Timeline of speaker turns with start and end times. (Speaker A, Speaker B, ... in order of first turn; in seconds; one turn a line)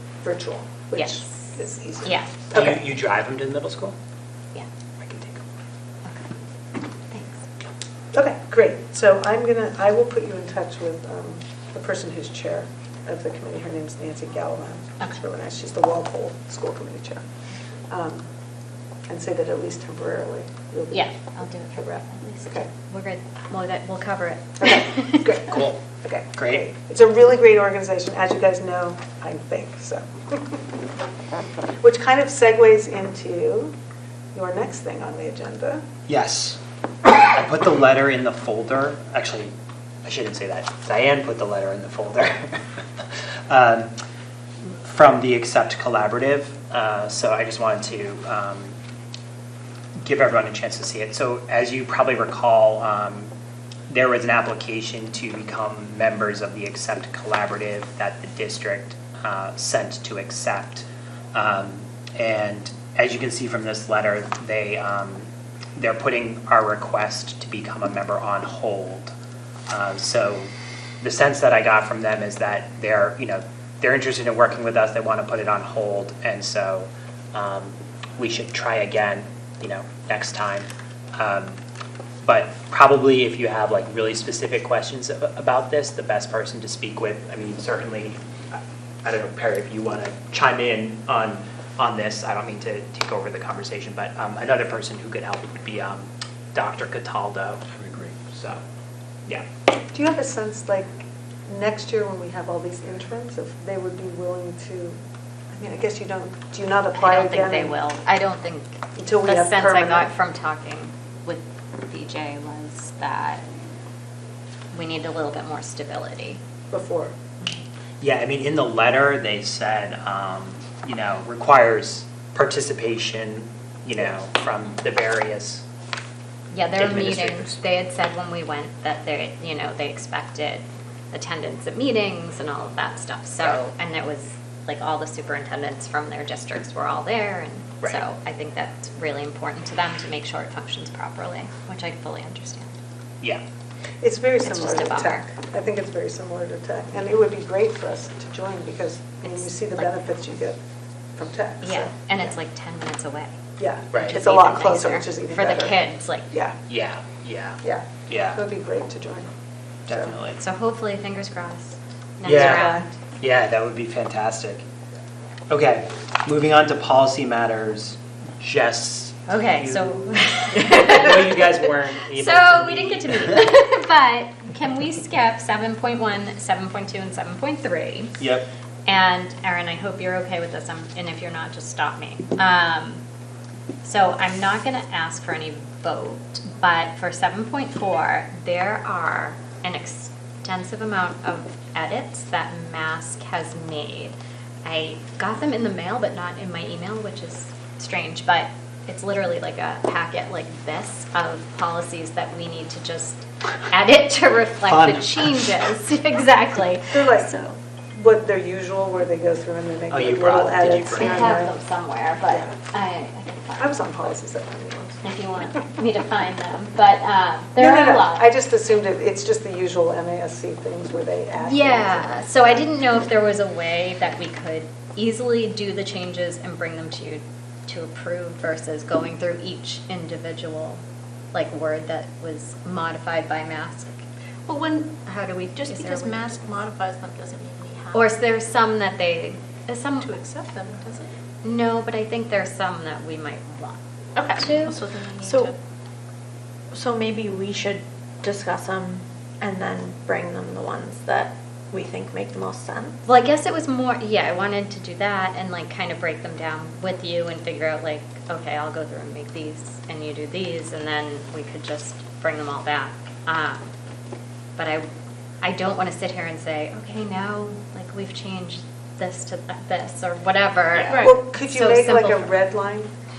Speaker A: 0.2-2.8
Speaker B: 0.9-2.3
Speaker C: 2.5-4.0
Speaker C: 5.0-5.4
Speaker B: 7.1-7.4
Speaker A: 8.1-17.2
Speaker A: 17.9-18.2
Speaker A: 19.1-22.7
Speaker B: 20.9-25.4
Speaker A: 24.6-30.6
Speaker C: 25.3-26.6
Speaker A: 31.8-33.7
Speaker A: 34.3-35.9
Speaker C: 36.1-39.5
Speaker C: 40.0-43.9
Speaker C: 44.8-48.7
Speaker C: 50.0-53.3
Speaker C: 53.9-69.1
Speaker C: 69.7-70.5
Speaker C: 71.0-81.6
Speaker C: 82.2-98.6
Speaker A: 99.9-105.0
Speaker A: 105.5-107.8
Speaker B: 106.9-113.4
Speaker A: 109.0-110.1
Speaker B: 114.7-116.4
Speaker A: 116.7-117.1
Speaker C: 118.0-125.6
Speaker B: 126.5-142.7
Speaker C: 126.8-127.5
Speaker A: 144.0-150.6
Speaker B: 144.4-145.2
Speaker B: 149.2-149.9
Speaker A: 151.2-152.3
Speaker B: 151.6-153.3
Speaker A: 153.6-155.8
Speaker C: 153.9-154.2
Speaker B: 153.9-156.3
Speaker A: 156.3-156.6
Speaker C: 156.7-158.4
Speaker A: 157.6-159.3
Speaker C: 159.9-160.4
Speaker A: 159.9-160.1
Speaker B: 160.4-163.0
Speaker C: 162.2-162.7
Speaker A: 162.3-162.9
Speaker C: 163.2-164.6
Speaker C: 165.5-173.4
Speaker B: 169.3-178.2
Speaker C: 178.2-178.5
Speaker B: 178.8-183.0
Speaker B: 183.8-207.5
Speaker C: 204.6-205.5
Speaker A: 206.9-207.3
Speaker A: 207.9-211.5
Speaker C: 209.9-211.4
Speaker B: 210.9-213.8
Speaker A: 212.3-212.5
Speaker A: 213.6-215.0
Speaker B: 215.0-218.3
Speaker A: 217.6-222.7
Speaker B: 221.4-230.8
Speaker B: 231.3-234.0
Speaker D: 234.5-238.0
Speaker B: 235.3-236.3
Speaker B: 237.9-240.2
Speaker D: 240.0-241.1
Speaker B: 241.4-243.8
Speaker D: 244.2-245.5
Speaker B: 244.3-244.8
Speaker E: 245.2-245.5
Speaker E: 246.7-253.0
Speaker B: 253.1-263.6
Speaker B: 264.6-264.8
Speaker B: 265.4-272.3
Speaker C: 270.7-271.1
Speaker A: 270.9-272.9